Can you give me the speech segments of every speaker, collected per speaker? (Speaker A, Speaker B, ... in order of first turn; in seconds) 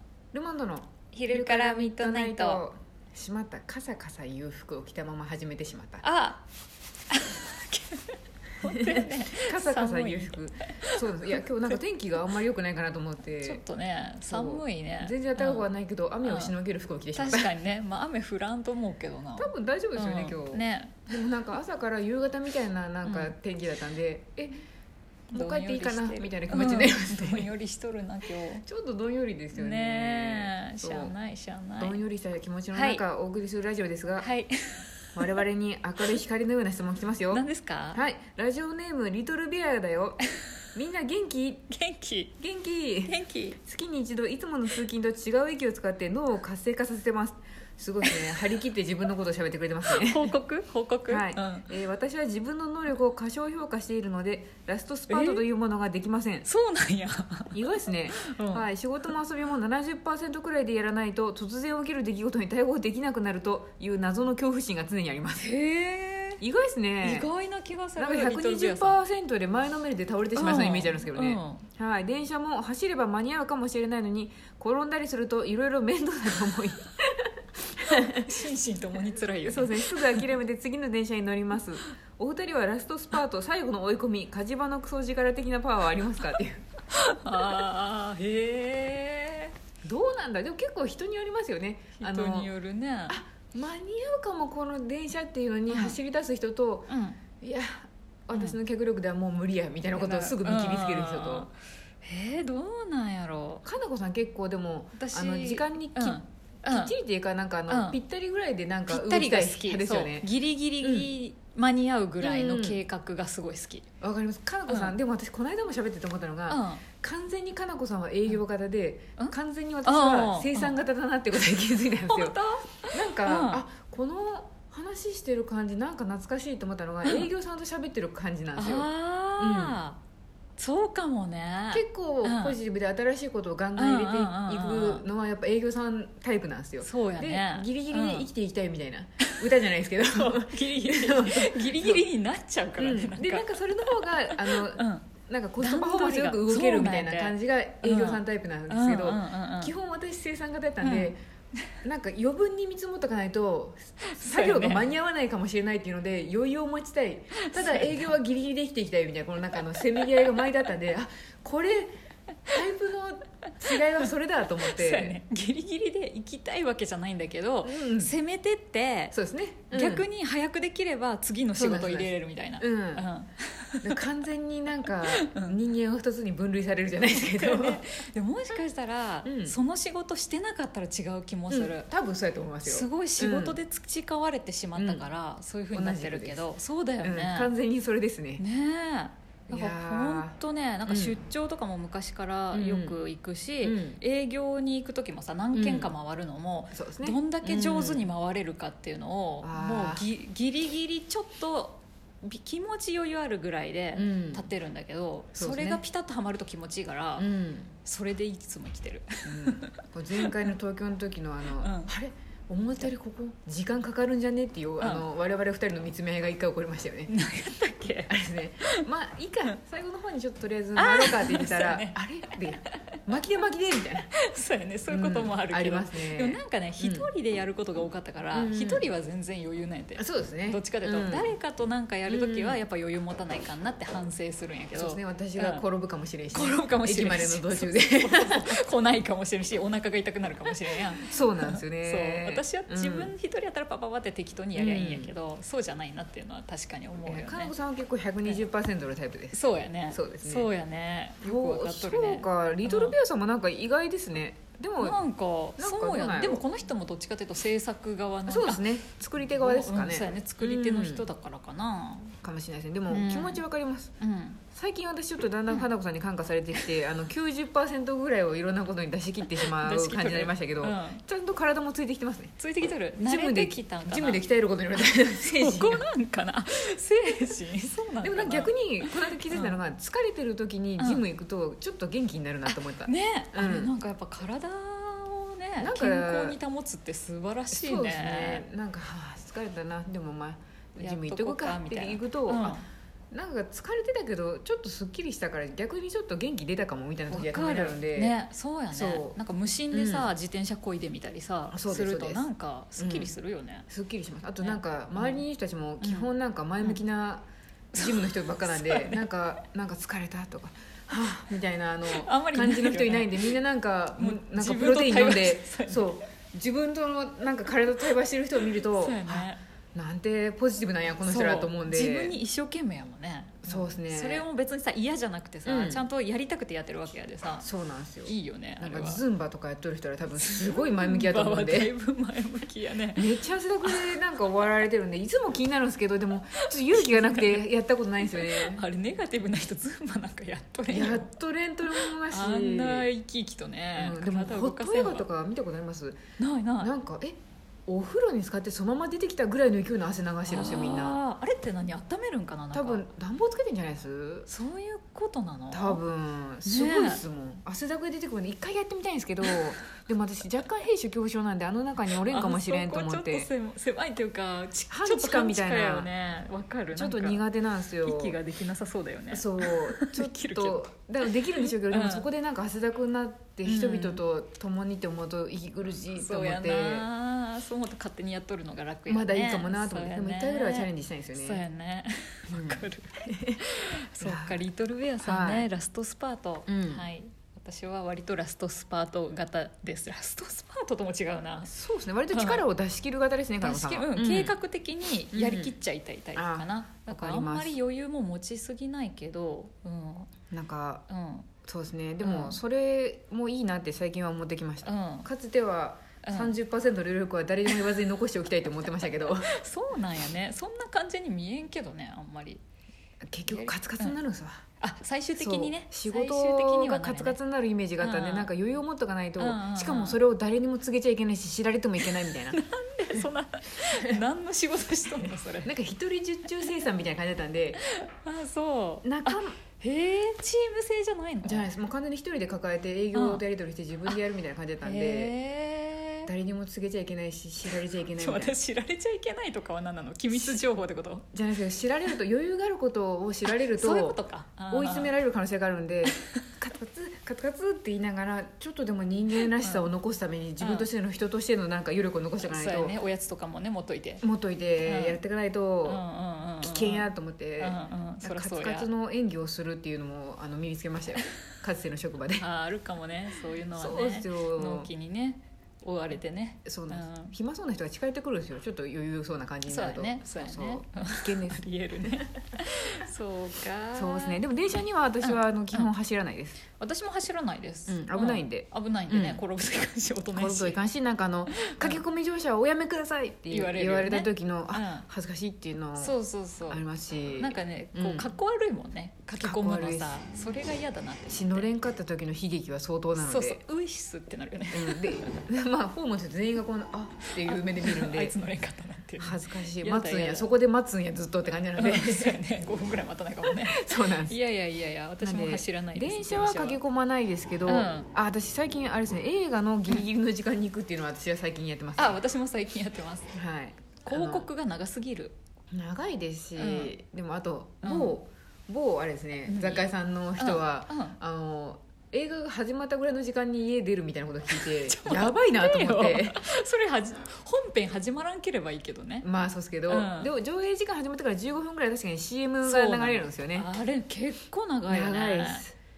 Speaker A: 0.3-6.0, 8.6-13.6, 14.3-17.5, 19.4-24.6, 25.3-27.5, 28.6-31.1, 31.8-34.3, 35.1-40.2, 40.8-41.7, 42.4-50.4, 51.1-56.5, 57.5-65.5, 66.4-67.3, 68.0-78.3, 79.4-86.6, 89.8-92.5, 93.1-96.9, 97.4-101.5, 103.6-110.3, 110.8-111.1, 112.2-112.8, 114.0-122.4, 122.9-129.8, 131.7-142.1, 142.8-151.2, 151.8-161.9, 162.5-165.2, 167.6-168.2, 169.1-170.1, 171.6-173.1, 173.8-177.8, 179.2-179.6, 181.5-183.6, 184.8-185.1, 185.7-186.5, 187.0-188.4, 189.5-191.2, 192.5-193.0, 193.6-194.0, 195.5-195.9, 196.7-198.1, 199.4-200.1, 203.9-204.5, 205.3-205.8, 207.2-207.7, 209.2-217.1, 218.1-224.1, 224.9-227.1, 228.3-228.9, 230.0-231.3, 232.1-232.6, 234.8-238.6, 241.0-243.1, 244.6-245.1, 247.0-250.5, 251.2-255.0, 255.6-256.5, 258.3-261.1, 262.2-263.9, 264.5-272.4, 273.0-275.9, 278.0-283.7, 285.6-286.4, 287.5-292.6, 293.1-298.1, 298.7-299.2, 299.7-300.1, 301.5-303.1, 303.7-322.2, 323.4-324.3, 325.4-325.8, 327.4-331.7, 332.9-338.6, 340.7-342.9, 343.8-346.0, 346.6-351.0, 352.5-354.3, 355.5-363.3, 364.7-365.9, 366.7-368.2, 369.1-376.9, 378.9-381.4, 382.3-383.4, 384.0-384.4, 385.0-385.5, 386.5-386.9, 391.5-394.3, 395.1-395.5, 396.2-397.6, 400.3-400.9, 401.4-409.3, 413.0-414.4, 415.2-422.4, 423.7-424.0, 425.4-427.6, 428.8-429.4, 431.2-435.1, 436.1-438.4, 440.1-440.4, 441.1-452.8, 454.0-455.8, 456.4-462.2, 463.6-464.7, 466.4-472.2, 473.8-476.4, 477.7-479.2, 480.1-486.0, 486.5-488.1, 489.2-490.0, 491.1-493.4, 494.5-498.2, 499.0-502.2, 503.2-504.2, 505.0-512.0, 513.1-514.3, 515.5-526.3, 529.0-533.5, 534.7-535.6
Speaker B: 1.1-2.6, 6.0-6.4, 7.1-11.0, 13.4-15.7, 16.2-16.5, 17.1-21.1, 23.1-23.3, 25.3-28.6, 29.5-32.0, 32.7-33.0, 34.2-34.9, 37.3-38.0, 41.7-42.3, 43.1-43.6, 49.9-51.7, 55.1-55.5, 56.5-57.6, 58.2-58.7, 65.4-66.4, 67.0-69.0, 70.4-71.7, 77.9-80.2, 86.9-89.5, 92.0-93.2, 95.7-96.0, 96.9-97.2, 100.0-103.6, 105.0-106.9, 107.7-108.0, 108.9-113.9, 114.7-115.0, 116.5-116.8, 119.2-120.8, 122.1-123.6, 127.0-127.3, 128.6-130.0, 130.6-132.6, 133.8-135.1, 136.8-138.3, 140.1-145.1, 145.6-149.7, 150.8-151.7, 154.0-154.9, 157.4-158.1, 159.8-160.1, 164.7-169.2, 169.7-174.0, 175.1-175.6, 177.1-181.9, 182.6-187.5, 188.4-207.3, 207.8-210.4, 211.6-211.9, 214.8-215.1, 217.1-218.8, 220.8-222.8, 224.2-235.6, 236.3-247.5, 249.3-253.0, 254.8-262.2, 262.9-263.4, 264.0-264.4, 269.4-271.0, 272.4-274.2, 274.8-279.6, 280.8-281.0, 282.5-288.5, 290.8-292.7, 297.1-303.7, 304.4-305.2, 305.8-306.1, 307.7-309.1, 311.9-313.4, 314.0-316.0, 318.5-319.4, 321.0-327.5, 328.1-329.0, 330.2-333.1, 333.6-333.9, 336.4-337.5, 338.1-341.1, 341.7-345.1, 346.2-346.7, 350.3-352.9, 354.3-355.8, 356.4-357.0, 362.1-367.2, 367.8-372.1, 373.4-374.0, 375.9-391.5, 392.1-392.4, 393.4-400.1, 400.9-401.3, 402.0-402.4, 404.6-405.1, 406.0-406.4, 409.2-412.4, 413.3-414.0, 414.6-417.2, 417.8-418.3, 419.2-420.0, 421.9-425.5, 427.6-431.5, 432.9-433.2, 434.6-436.1, 437.5-441.1, 443.5-445.0, 449.4-449.7, 450.4-450.7, 452.2-454.0, 454.6-455.0, 455.6-456.9, 457.4-458.7, 462.2-467.1, 469.5-474.2, 475.0-475.7, 476.6-480.6, 481.3-481.8, 483.3-484.9, 485.8-486.6, 487.2-491.5, 493.0-495.3, 497.2-500.3, 501.6-506.6, 507.5-507.9, 511.8-513.2, 513.8-515.1, 516.4-516.7, 517.6-518.0, 519.3-521.0, 524.3-529.1, 529.7-530.1, 532.4-535.5